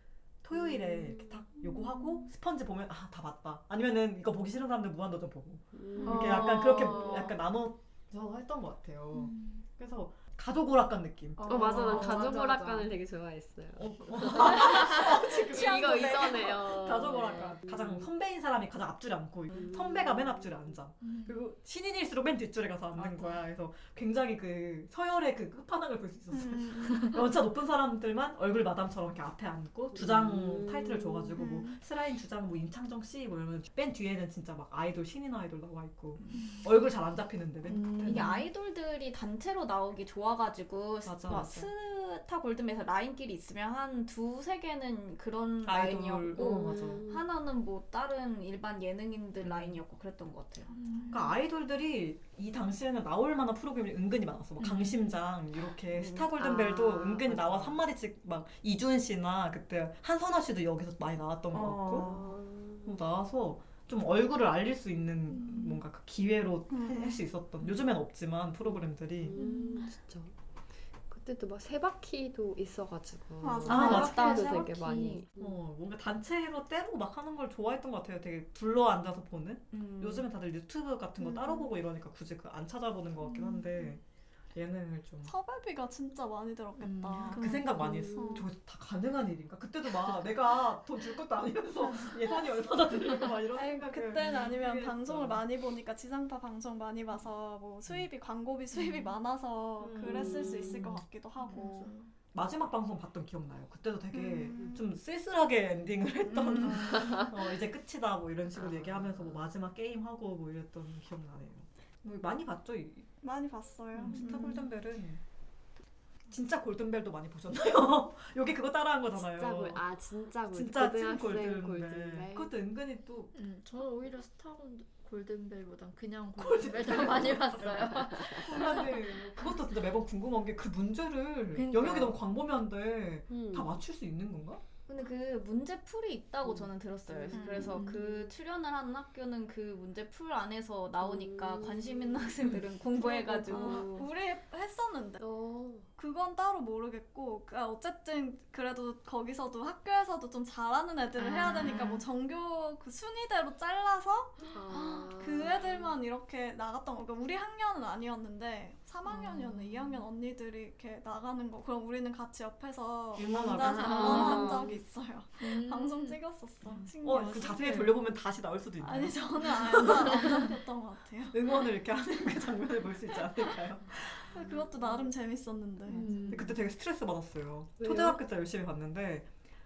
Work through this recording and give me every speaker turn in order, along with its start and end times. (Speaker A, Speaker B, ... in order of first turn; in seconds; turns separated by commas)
Speaker A: 0.4-12.3, Speaker B: 0.5-1.4, Speaker B: 5.7-6.5, Speaker C: 6.0-7.3, Speaker D: 9.2-9.6, Speaker C: 11.4-12.9, Speaker B: 11.5-18.1, Speaker A: 13.7-38.4, Speaker B: 19.5-20.6, Speaker D: 21.0-21.4, Speaker C: 22.9-23.4, Speaker E: 26.3-27.2, Speaker B: 29.9-31.4, Speaker E: 31.4-31.8, Speaker D: 37.6-38.4, Speaker C: 38.0-50.7, Speaker A: 41.0-41.7, Speaker A: 45.6-47.0, Speaker B: 46.4-47.2, Speaker A: 49.4-49.8, Speaker E: 50.7-51.2, Speaker D: 50.8-51.3, Speaker A: 51.1-62.1, Speaker D: 54.6-55.1, Speaker C: 55.9-57.8, Speaker C: 61.5-62.0, Speaker B: 61.9-62.9, Speaker A: 62.8-69.3, Speaker D: 65.3-65.8, Speaker E: 66.7-67.2, Speaker B: 68.6-70.3, Speaker D: 69.3-69.9, Speaker B: 71.1-75.6, Speaker E: 73.4-74.4, Speaker A: 73.7-84.0, Speaker C: 73.7-75.2, Speaker C: 79.7-80.2, Speaker D: 83.3-83.7, Speaker A: 84.5-85.3, Speaker E: 85.2-87.5, Speaker D: 86.8-87.7, Speaker A: 87.3-95.4, Speaker B: 87.8-88.4, Speaker E: 88.1-88.5, Speaker E: 93.5-101.9, Speaker A: 99.8-101.0, Speaker D: 101.4-102.1, Speaker A: 102.3-113.1, Speaker E: 104.1-104.8, Speaker E: 106.4-107.3, Speaker B: 108.6-109.4, Speaker E: 113.2-114.7, Speaker A: 114.0-115.2, Speaker A: 116.3-119.8, Speaker B: 119.2-122.5, Speaker A: 120.5-123.3, Speaker D: 123.3-129.0, Speaker A: 126.3-134.6, Speaker B: 128.2-128.8, Speaker D: 131.5-132.2, Speaker B: 133.3-133.8, Speaker C: 134.9-144.1, Speaker B: 136.4-138.0, Speaker E: 137.3-137.8, Speaker D: 137.6-138.3, Speaker B: 141.0-142.4, Speaker B: 142.9-144.1, Speaker E: 143.4-145.2, Speaker B: 145.2-145.9, Speaker E: 146.0-167.7, Speaker D: 151.2-152.1, Speaker B: 154.5-155.9, Speaker D: 159.0-159.8, Speaker A: 163.1-164.6, Speaker C: 163.8-164.7, Speaker D: 163.8-164.6, Speaker D: 165.4-166.2, Speaker A: 167.0-170.2, Speaker D: 167.5-167.9, Speaker E: 168.8-171.4, Speaker D: 169.8-170.5, Speaker A: 171.3-174.4, Speaker E: 174.3-176.2, Speaker D: 175.9-176.5, Speaker B: 176.1-176.5, Speaker A: 176.3-179.3, Speaker B: 177.8-178.2